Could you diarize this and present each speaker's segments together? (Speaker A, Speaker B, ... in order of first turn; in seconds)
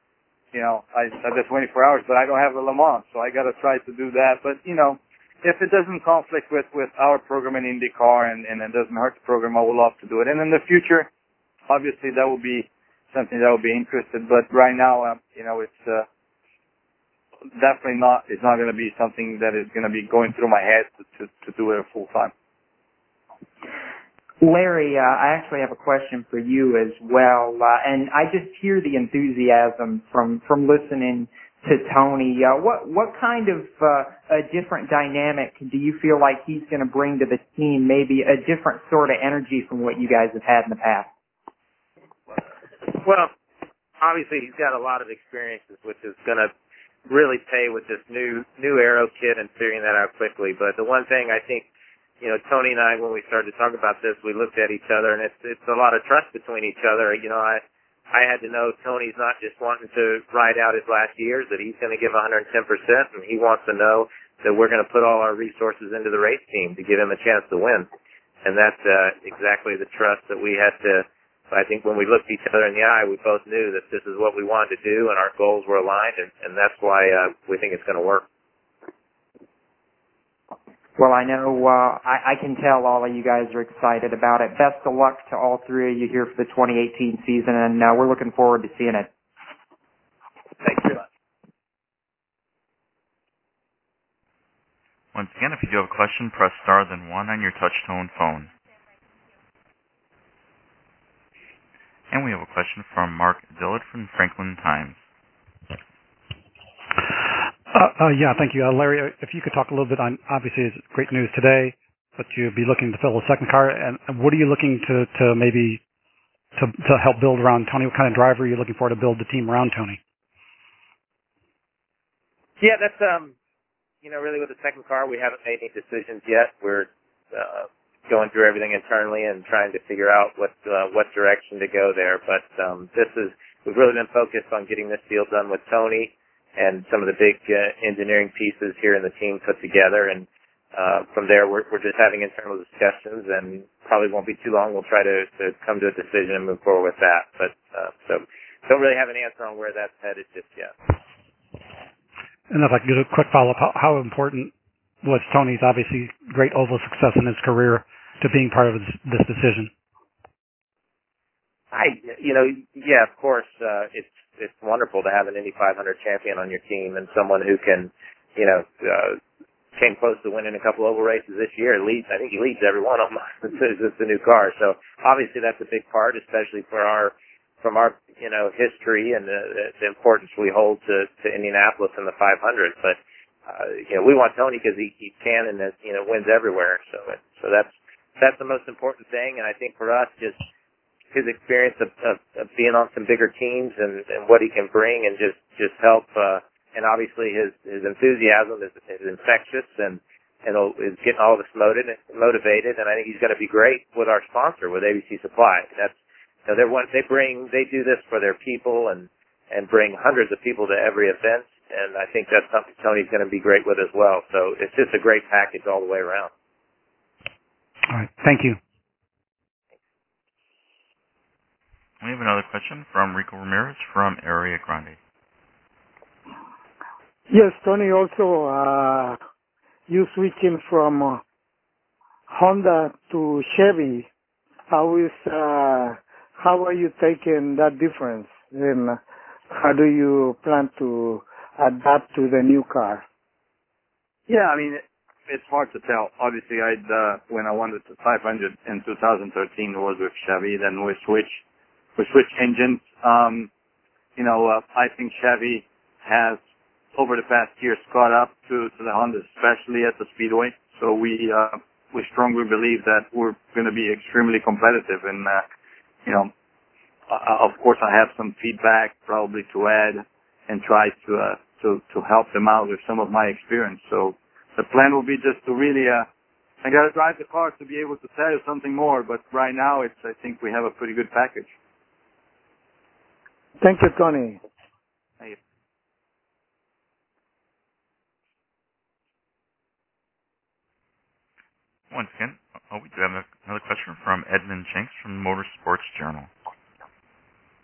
Speaker A: 0.5-11.1, 11.7-16.1, 17.6-22.3, 244.3-251.4, 252.0-253.5, 254.2-256.4, 256.9-265.4, 266.0-266.3, 267.1-276.1, 276.6-281.5
Speaker B: 24.4-41.1, 81.0-89.1
Speaker C: 42.9-43.3, 44.0-46.5, 47.1-51.6, 52.2-67.9, 68.4-78.2, 122.6-123.3, 124.0-150.7, 161.7-169.2, 169.8-190.4, 191.1-216.3
Speaker D: 95.1-98.5, 102.1-105.0, 222.0-225.0, 291.9-296.3
Speaker E: 107.7-115.8, 116.5-120.0, 152.5-154.5, 155.0-159.7, 217.9-218.6
Speaker F: 227.3-229.2, 229.9-231.2, 232.3-234.1, 234.7-239.0, 239.5-243.0, 283.6-284.4